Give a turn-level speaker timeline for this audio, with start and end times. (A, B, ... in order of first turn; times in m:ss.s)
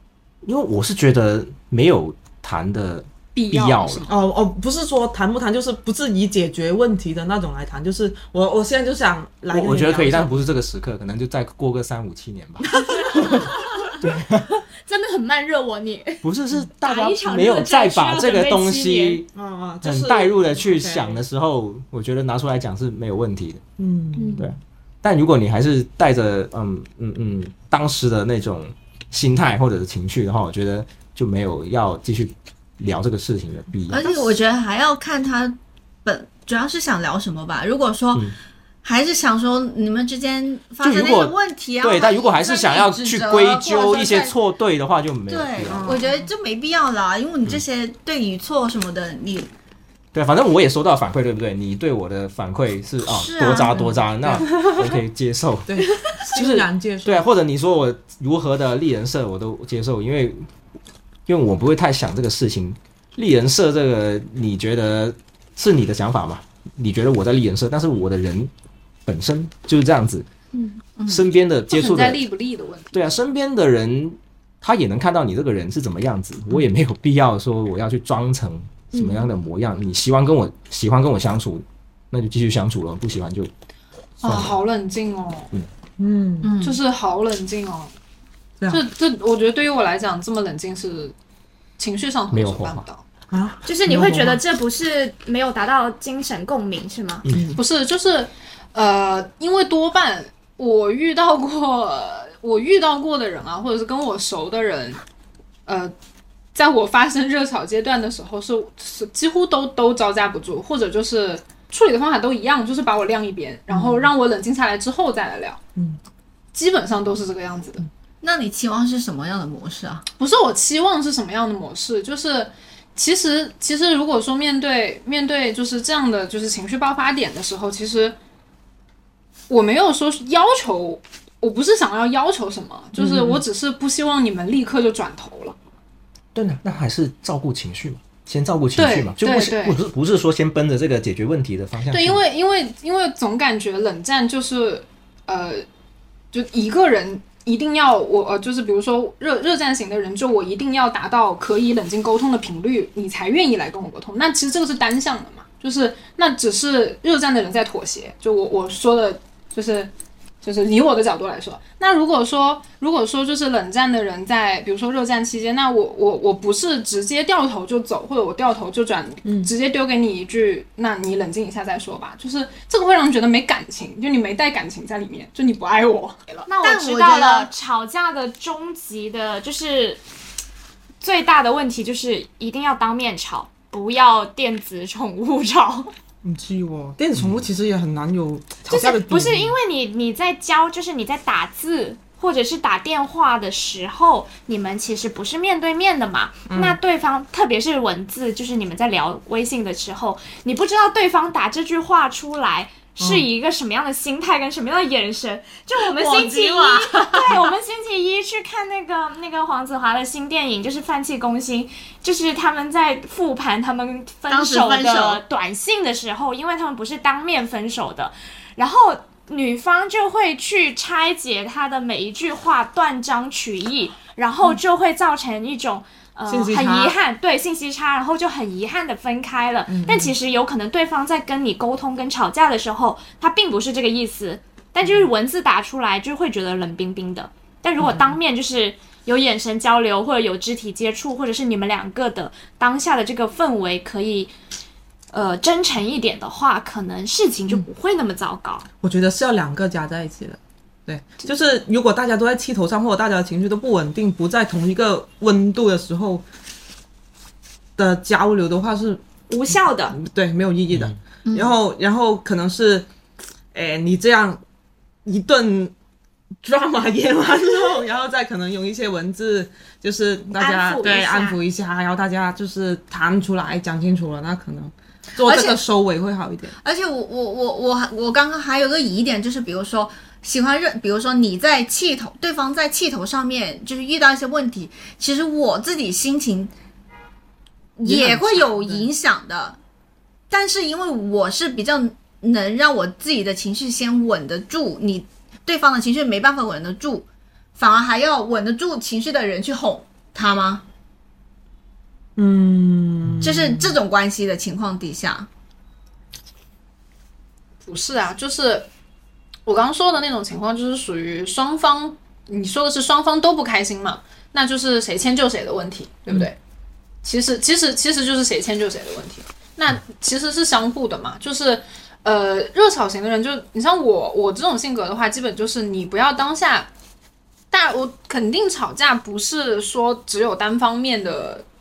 0:00.4-0:04.1 A
0:03.3-0:04.2 B
0:04.1-0:10.4 C
0:09.5-0:14.6 A
0:13.0-0:13.3 C
0:13.2-0:14.0 D
0:14.8-0:16.3 D
0:16.2-0:19.3 A
0:16.8-0:19.2 D
0:19.3-0:21.2 C
0:19.8-0:23.6 A
0:23.8-0:24.5 C
0:24.2-0:24.4 D
0:24.4-0:34.1 A
0:33.9-0:38.3 E
0:38.8-0:44.3 E
0:40.8-0:45.9 A
0:45.3-0:49.5 E
0:45.7-0:46.3 C
0:50.1-0:55.8 A
0:53.1-0:53.8 E
0:53.7-0:54.7 C
0:55.7-0:57.2 C
0:56.3-1:00.5 A
1:01.3-1:08.5 A
1:09.0-1:10.2 A
1:11.1-1:12.2 A
1:11.7-1:13.0 B
1:12.9-1:23.5 A
1:19.0-1:19.2 D
1:24.2-1:25.5 B
1:24.2-1:24.6 A
1:26.0-1:26.5 C
1:26.4-1:26.8 E
1:26.6-1:27.9 B
1:28.7-1:31.1 B
1:31.8-1:33.0 B
1:32.3-1:32.8 A
1:33.3-1:34.4 C
1:33.6-1:37.3 D
1:37.2-1:37.5 A
1:37.3-1:37.6 C
1:37.6-1:45.0 B
1:45.6-1:45.9 B
1:46.5-1:55.6 B
1:53.7-1:54.1 C
1:56.5-1:57.8 B
1:58.2-2:00.0 E
2:00.2-2:08.2 B
2:09.5-2:15.6 B
2:13.0-2:13.4 C
2:16.3-2:22.2 A
2:18.8-2:19.8 B
2:21.9-2:25.6 B
2:26.3-2:56.5 B
2:49.2-2:49.5 C
2:56.5-3:00.0 D
2:56.6-2:57.5 E
3:01.0-3:05.9 D
3:06.2-3:09.6 C
3:07.2-3:07.4 A
3:08.7-4:04.3 D
3:16.5-3:16.8 C
3:23.0-3:23.2 C
3:25.8-3:27.5 E
3:34.3-3:35.2 E
3:46.3-3:46.9 C
3:49.7-3:50.1 C
3:57.8-3:58.2 C
4:05.1-4:08.6 D
4:08.8-4:16.2 C
4:17.8-4:19.0 C
4:19.3-4:20.0 D
4:19.9-4:22.9 C
4:20.7-4:21.0 A
4:21.3-4:21.5 E
4:23.5-4:24.4 C
4:25.0-4:25.7 C
4:26.4-4:36.5 C
4:30.4-4:31.4 D
4:35.2-4:35.6 E
4:36.6-4:46.5 E
4:47.8-4:49.6 E
4:47.8-4:48.9 C
4:50.3-5:00.6 E
5:02.2-5:03.8 C
5:03.2-5:05.3 E
5:07.6-5:08.7 B
5:09.4-5:16.4 B
5:17.0-5:26.7 B
5:27.5-5:31.4 B